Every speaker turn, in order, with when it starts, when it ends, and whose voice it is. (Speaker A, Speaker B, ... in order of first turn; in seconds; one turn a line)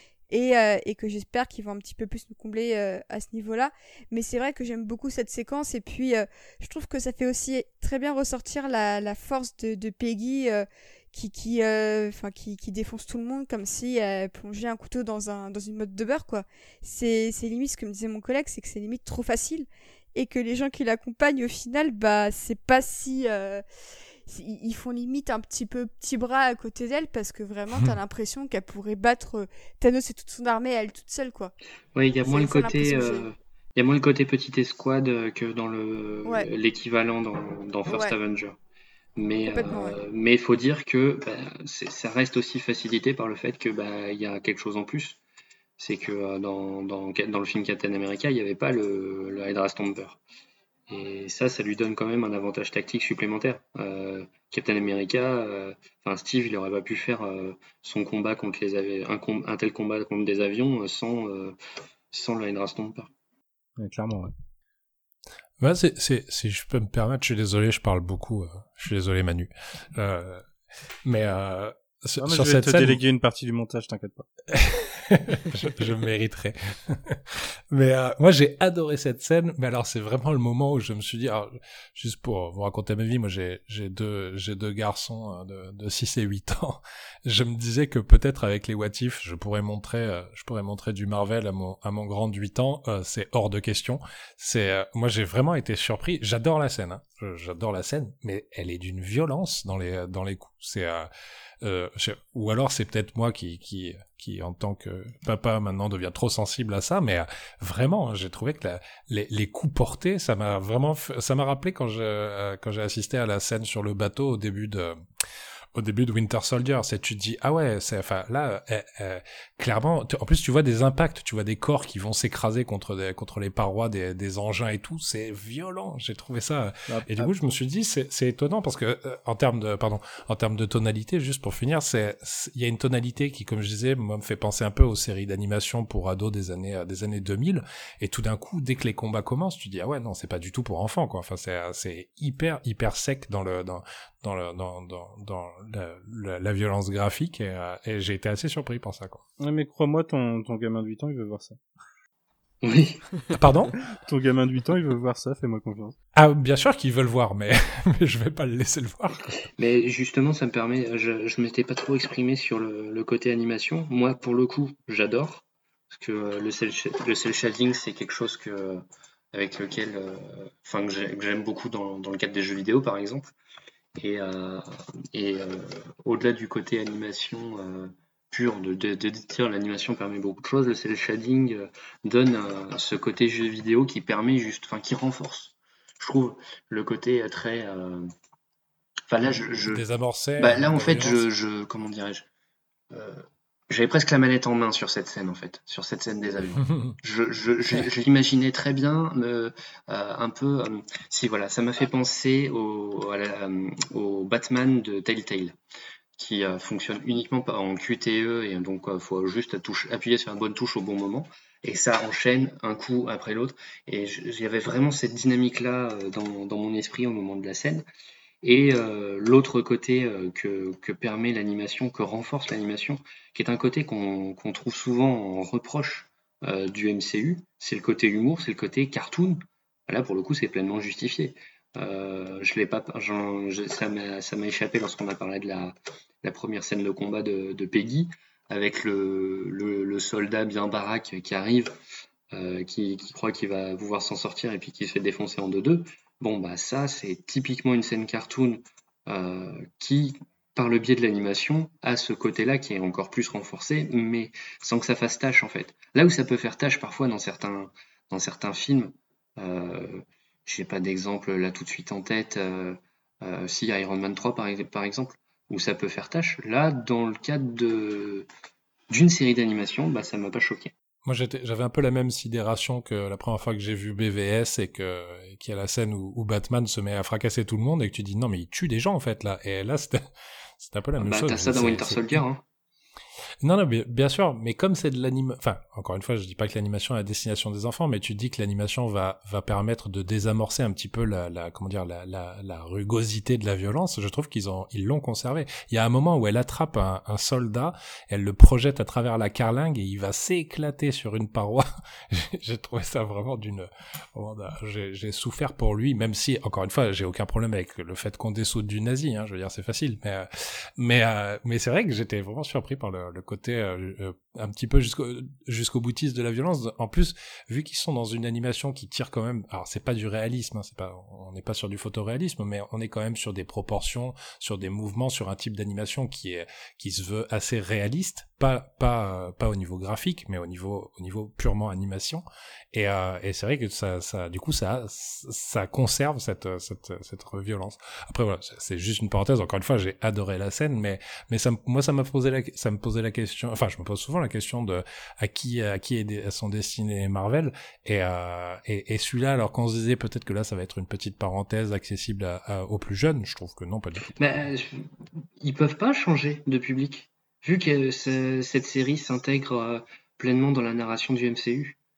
Speaker A: 0.3-23.6
Speaker A: 24.3-31.5
Speaker B: 31.9-38.6
Speaker A: 32.2-33.3
Speaker A: 37.9-38.1
Speaker B: 39.1-45.2
Speaker A: 39.4-40.0
Speaker B: 45.8-50.2
Speaker B: 50.9-61.6
Speaker B: 62.1-63.1
Speaker C: 63.8-64.3
Speaker D: 65.6-70.4
Speaker D: 71.0-73.0
Speaker C: 72.2-74.3
Speaker D: 74.5-101.1
Speaker D: 101.6-115.0
Speaker D: 115.7-149.2
Speaker C: 126.9-127.3
Speaker C: 149.4-151.6
Speaker B: 152.6-153.0
Speaker D: 153.3-153.8
Speaker C: 153.8-155.9
Speaker D: 156.1-159.4
Speaker B: 159.4-173.3
Speaker B: 173.9-188.1
Speaker B: 189.1-189.9
Speaker D: 189.7-191.3
Speaker B: 190.4-192.3
Speaker B: 192.9-205.6
Speaker D: 196.6-196.9
Speaker B: 206.2-217.9
Speaker B: 218.4-241.7
Speaker B: 242.3-268.3
Speaker B: 268.9-270.7
Speaker D: 271.1-280.0
Speaker D: 280.6-282.2
Speaker B: 281.0-282.4
Speaker D: 283.4-354.1
Speaker B: 354.1-361.8